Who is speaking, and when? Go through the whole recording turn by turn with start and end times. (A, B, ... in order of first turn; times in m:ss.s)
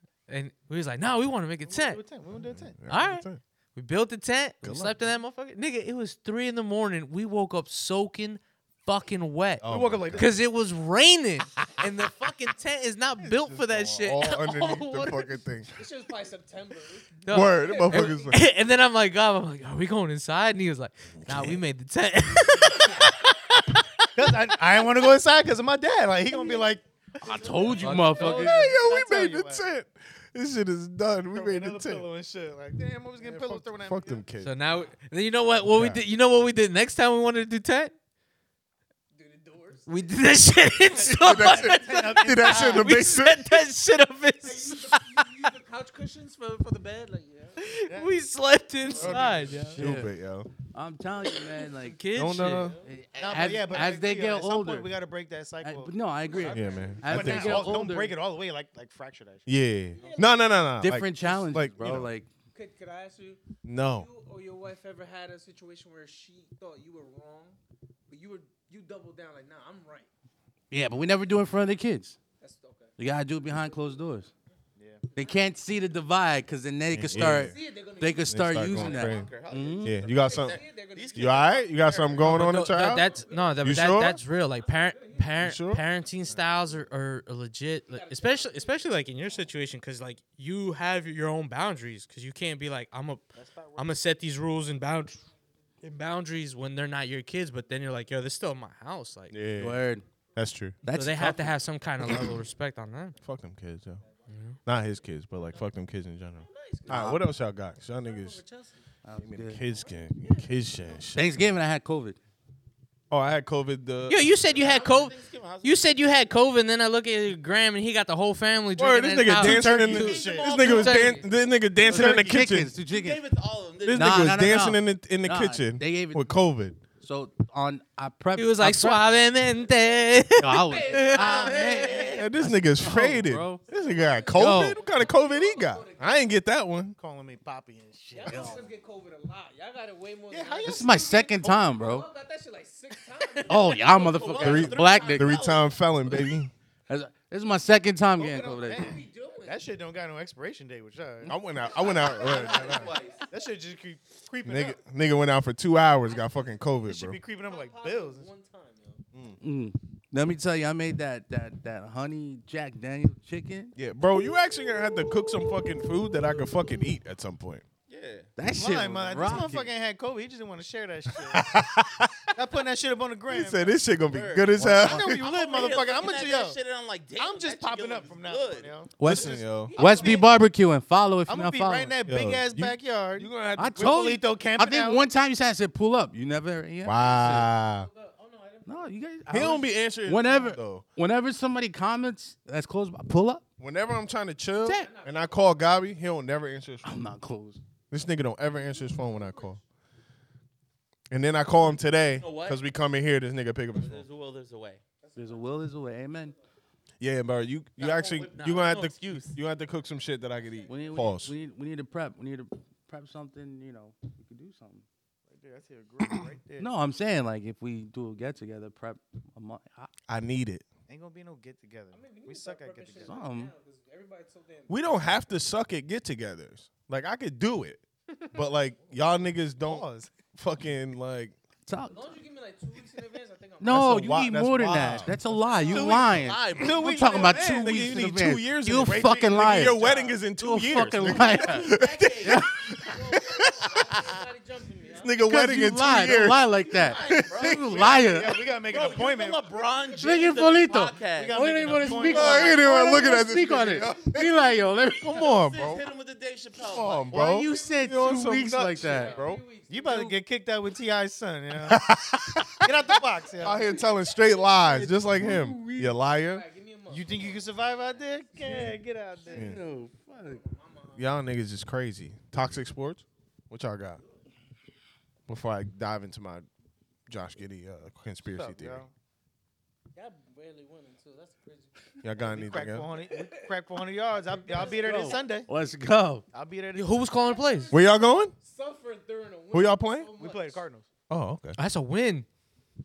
0:00.3-0:02.0 A
0:01.6-0:02.7 B
0:02.4-0:03.4 C
0:02.9-0:15.2 A
0:04.6-0:05.1 C
0:09.6-0:10.3 C
0:09.6-0:10.3 B
0:13.2-0:15.7 C
0:15.7-0:18.4 D
0:17.2-0:23.8 A
0:17.3-0:18.4 C
0:21.2-0:21.6 C
0:24.1-0:29.7 B
0:26.4-0:26.6 D
0:27.2-0:28.6 E
0:27.2-0:28.2 D
0:27.7-0:28.5 A
0:28.2-0:32.0 C
0:31.3-0:34.2 B
0:33.3-0:34.6 C
0:34.4-0:37.9 A
0:35.6-0:36.0 C
0:39.1-0:40.2 D
0:39.8-0:45.3 A
0:41.0-0:42.9 B
0:41.0-0:43.6 C
0:44.4-0:47.6 D
0:47.6-0:49.8 A
0:47.9-0:48.2 B
0:48.9-0:49.7 B
0:49.0-0:50.5 C
0:49.5-0:52.0 E
0:51.8-0:52.7 A
0:52.1-0:52.8 C
0:52.6-0:52.8 D
0:52.8-0:54.9 E
0:53.2-0:56.4 B
0:55.6-0:58.2 E
0:56.3-0:57.2 D
0:56.5-0:57.8 C
0:57.0-1:00.2 B
0:59.4-1:02.1 C
0:59.9-1:00.8 D
1:00.8-1:02.3 E
1:02.5-1:10.1 D
1:03.6-1:04.1 C
1:10.7-1:12.2 E
1:12.4-1:12.9 D
1:13.0-1:14.3 E
1:14.8-1:15.0 B
1:15.1-1:15.5 D
1:15.2-1:20.0 E
1:16.9-1:17.6 C
1:17.1-1:23.6 D
1:18.3-1:20.6 C
1:18.7-1:21.8 F
1:21.1-1:23.1 C
1:22.2-1:33.2 A
1:23.6-1:24.2 C
1:24.5-1:25.4 D
1:25.4-1:25.8 C
1:27.9-1:29.3 D
1:33.3-1:34.0 B
1:33.8-1:35.2 A
1:35.8-1:39.3 A
1:39.3-1:39.8 C
1:39.6-1:40.0 E
1:40.4-1:40.8 C
1:40.8-1:42.3 E
1:40.9-1:43.2 A
1:43.2-1:44.0 C
1:44.3-1:44.6 A
1:44.6-1:48.4 C
1:46.3-1:47.0 D
1:46.9-1:47.2 E
1:48.0-1:48.8 D
1:49.0-1:49.6 E
1:49.2-1:51.3 C
1:49.6-1:51.0 D
1:51.1-1:52.2 E
1:53.1-1:54.3 C
1:54.1-2:01.2 A
1:54.3-1:55.8 F
1:58.8-2:02.7 C
1:59.4-1:59.7 E
1:59.6-2:01.3 F
1:59.7-2:00.5 B
2:01.8-2:03.2 E
2:01.9-2:02.3 F
2:02.8-2:04.3 F
2:03.8-2:06.8 C
2:03.9-2:06.4 E
2:07.0-2:09.0 E
2:08.3-2:11.3 A
2:10.4-2:13.7 E
2:10.5-2:12.3 D
2:11.1-2:12.2 F
2:12.0-2:17.0 C
2:13.6-2:16.3 D
2:14.3-2:14.8 E
2:17.0-2:18.7 B
2:18.1-2:25.1 D
2:18.3-2:18.6 E
2:20.3-2:21.6 B
2:20.6-2:22.1 E
2:23.4-2:25.4 E
2:23.7-2:26.2 F
2:24.4-2:26.5 C
2:26.9-2:29.0 E
2:28.2-2:31.4 B
2:28.5-2:29.6 D
2:31.2-2:32.9 C
2:31.8-2:33.2 F
2:31.8-2:33.2 D
2:33.3-2:34.8 B
2:34.4-2:37.2 C
2:36.0-2:36.8 D
2:36.8-2:38.3 B
2:37.4-2:39.0 D
2:39.1-2:39.4 C
2:39.4-2:43.7 E
2:43.8-2:47.6 C
2:47.9-2:48.3 F
2:48.4-2:49.7 E
2:48.5-2:51.6 B
2:51.3-2:52.3 C
2:52.3-2:53.8 B
2:53.3-2:55.2 C
2:54.1-2:58.8 F
2:54.6-2:56.6 B
2:57.2-3:00.3 B
2:59.0-3:02.0 E
2:59.0-2:59.8 C
2:59.4-3:00.3 D
3:01.3-3:05.0 B
3:02.0-3:04.0 C
3:03.5-3:07.5 E
3:06.8-3:07.9 C
3:07.3-3:09.6 D
3:08.6-3:13.4 E
3:09.3-3:10.9 C
3:13.6-3:17.0 C
3:14.6-3:14.9 E
3:14.6-3:15.6 D
3:16.8-3:17.6 E
3:17.9-3:19.6 C
3:18.5-3:19.6 D
3:21.1-3:24.0 C
3:22.2-3:22.6 F
3:23.7-3:24.8 F
3:25.0-3:26.4 D
3:25.2-3:26.3 E
3:27.0-3:31.3 C
3:27.8-3:29.4 F
3:30.3-3:31.2 D
3:30.6-3:34.8 E
3:35.3-3:36.7 B
3:36.6-3:39.9 E
3:40.1-3:40.6 C
3:40.9-3:43.2 B
3:41.9-3:44.8 D
3:43.0-3:43.5 E
3:44.7-3:51.4 C
3:49.6-3:50.1 B
3:51.6-3:52.0 E
3:51.9-3:54.1 D
3:53.6-4:02.5 E
3:53.7-4:03.8 C
3:55.3-3:56.0 D
3:55.7-3:57.2 F
3:56.6-3:57.4 B
3:59.7-4:00.2 F
4:01.0-4:02.4 F
4:02.8-4:05.2 D
4:03.8-4:04.2 F
4:05.0-4:07.3 C
4:05.2-4:08.4 E
4:06.7-4:12.0 F
4:07.6-4:09.4 B
4:10.0-4:15.3 E
4:11.1-4:12.8 B
4:11.9-4:14.4 C
4:15.0-4:15.8 C
4:15.1-4:17.2 F
4:16.6-4:19.4 C
4:17.1-4:19.2 E
4:17.1-4:20.1 D
4:19.7-4:21.8 B
4:21.6-4:22.8 C
4:22.6-4:23.7 B
4:23.4-4:24.7 D
4:23.4-4:26.4 C
4:24.6-4:26.0 E
4:26.2-4:28.7 D
4:26.9-4:29.6 B
4:29.3-4:29.6 C
4:29.4-4:30.4 E
4:30.2-4:31.1 D
4:31.0-4:34.0 C
4:35.3-4:36.5 C
4:37.1-4:38.8 C
4:38.2-4:38.9 B
4:39.9-4:42.0 D
4:42.0-4:42.9 C
4:42.2-4:45.5 B
4:42.9-4:43.5 D
4:44.1-4:45.3 D
4:44.7-4:46.2 E
4:46.3-4:47.1 B
4:46.7-4:47.7 A
4:47.1-4:50.6 D
4:47.7-4:48.3 C
4:49.5-4:50.1 C
4:50.2-4:50.9 B
4:51.1-4:51.6 C
4:51.6-4:52.2 A